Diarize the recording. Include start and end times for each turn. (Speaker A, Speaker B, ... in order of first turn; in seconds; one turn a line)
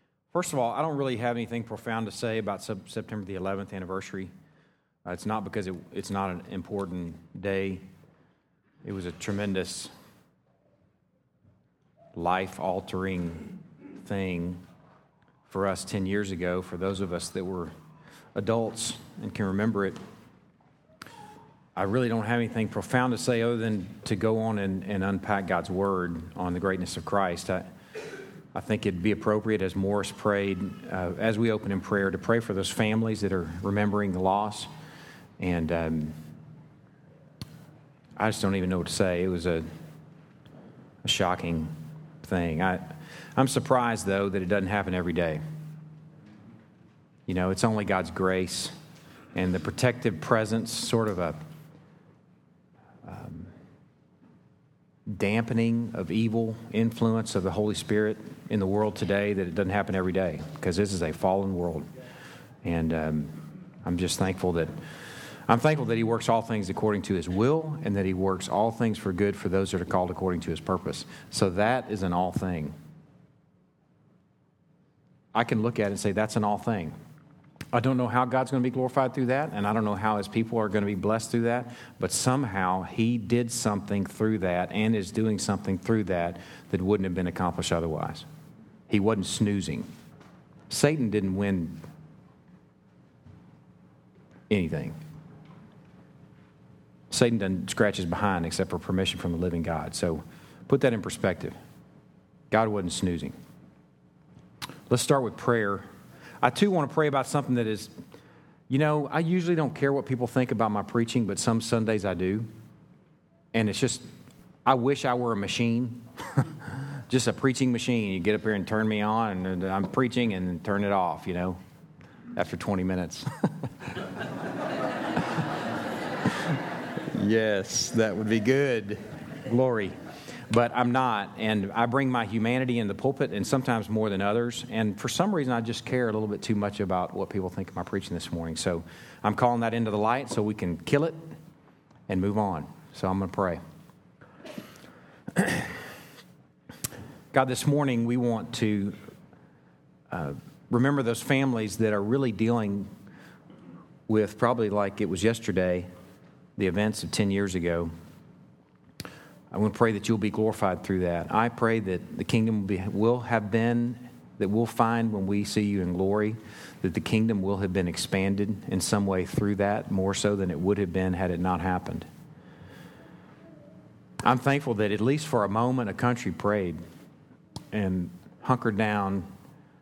Speaker A: 0.3-4.3
Speaker A: 5.0-7.8
Speaker A: 8.8-9.9
Speaker A: 12.2-14.6
Speaker A: 15.5-17.7
Speaker A: 18.3-20.0
Speaker A: 21.8-27.6
Speaker A: 28.5-34.7
Speaker A: 35.4-36.1
Speaker A: 38.2-39.6
Speaker A: 41.0-41.7
Speaker A: 42.2-45.4
Speaker A: 47.3-48.7
Speaker A: 49.3-51.4
Speaker A: 53.0-53.5
Speaker A: 55.1-61.9
Speaker A: 62.6-64.7
Speaker A: 65.5-72.7
Speaker A: 75.3-76.9
Speaker A: 77.7-88.2
Speaker A: 88.9-89.8
Speaker A: 90.7-91.8
Speaker A: 94.5-95.0
Speaker A: 97.1-101.5
Speaker A: 102.5-103.3
Speaker A: 104.9-105.8
Speaker A: 106.4-107.9
Speaker A: 108.7-112.5
Speaker A: 113.5-114.1
Speaker A: 114.7-121.6
Speaker A: 122.3-124.0
Speaker A: 125.2-125.4
Speaker A: 126.3-129.9
Speaker A: 130.5-141.2
Speaker A: 142.1-143.6
Speaker A: 145.3-145.7
Speaker A: 147.3-148.9
Speaker A: 150.1-152.9
Speaker A: 154.1-155.9
Speaker A: 156.6-157.9
Speaker A: 159.5-172.1
Speaker A: 174.2-176.8
Speaker A: 177.7-179.2